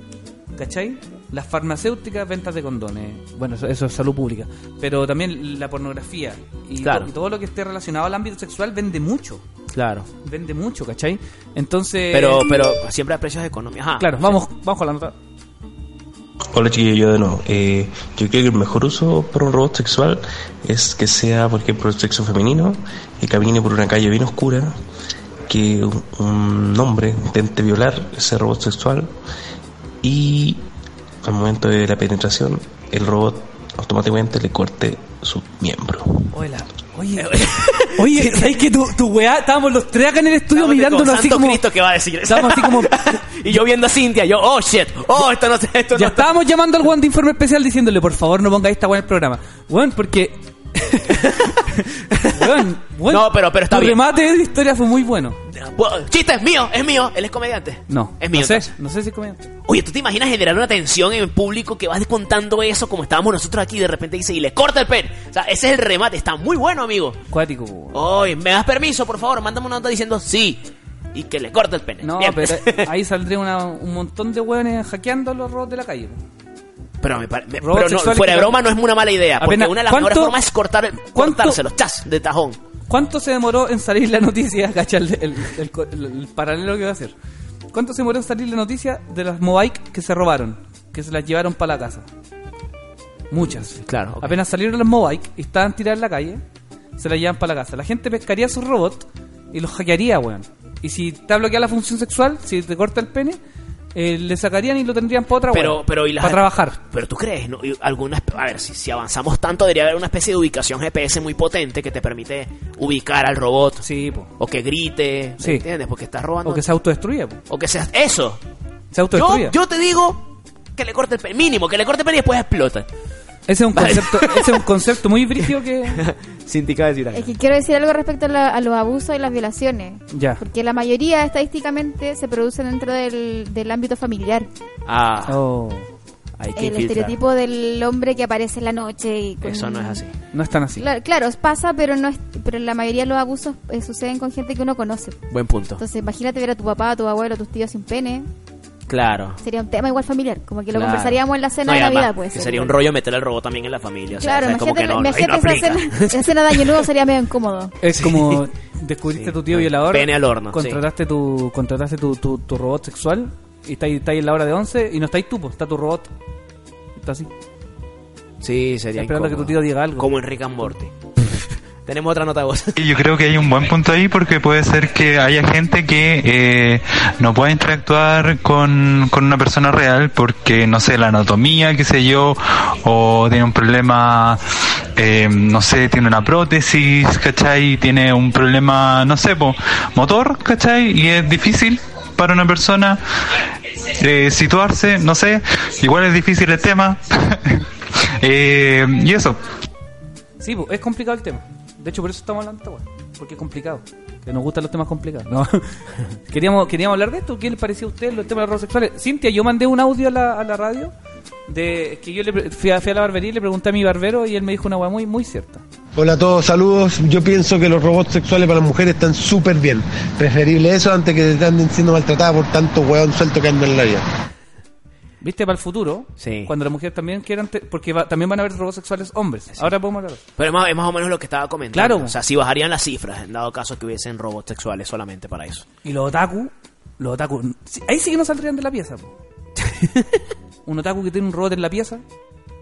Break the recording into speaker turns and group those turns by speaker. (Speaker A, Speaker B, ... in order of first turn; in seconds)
Speaker A: 0.6-9.4, 10.2-12.5, 14.0-15.2, 36.3-37.4, 38.0-41.6, 42.2-43.0, 46.0-51.1, 52.3-55.4, 57.9-59.5, 67.3-68.0, 72.0-76.2, 77.6-78.6, 79.4-80.4, 81.1-81.6, 82.9-87.1, 87.7-92.1, 93.3-96.4, 97.0-103.4, 104.0-106.8, 113.8-114.3, 115.4-115.7, 116.4-117.4, 118.9-119.6, 123.5-126.0, 130.1-130.4, 135.3-135.9, 140.3-140.9, 157.8-166.1, 167.0-167.3, 169.0-170.7, 200.4-210.9, 211.5-215.6, 225.2-230.2, 231.7-232.1, 235.8-239.1, 240.7-242.0
Speaker B: 6.8-7.1, 9.7-10.1, 12.1-14.4, 37.2-38.6, 40.5-46.3, 51.1-54.0, 55.5-58.7, 59.7-67.2, 67.9-72.9, 77.0-82.6, 93.8-94.4, 105.5-113.8, 114.4-116.7, 117.5-118.4, 119.1-122.9, 123.8-124.7, 126.0-127.3, 134.9-135.4, 136.4-137.2, 139.4-140.1, 145.3-145.8, 148.9-149.4, 150.7-156.8, 157.9-158.4, 159.1-160.8, 168.4-172.8, 226.2-226.5, 230.4-235.7, 239.6-240.2
Speaker C: 16.5-24.8, 25.5-29.1, 30.0-30.6, 31.2-36.2
Speaker D: 127.1-134.5, 136.6-140.0, 140.8-145.2, 145.8-148.3, 149.4-152.8, 154.2-157.8
Speaker E: 172.8-184.4, 184.9-193.0, 194.0-197.7, 198.2-199.4
Speaker F: 215.9-224.1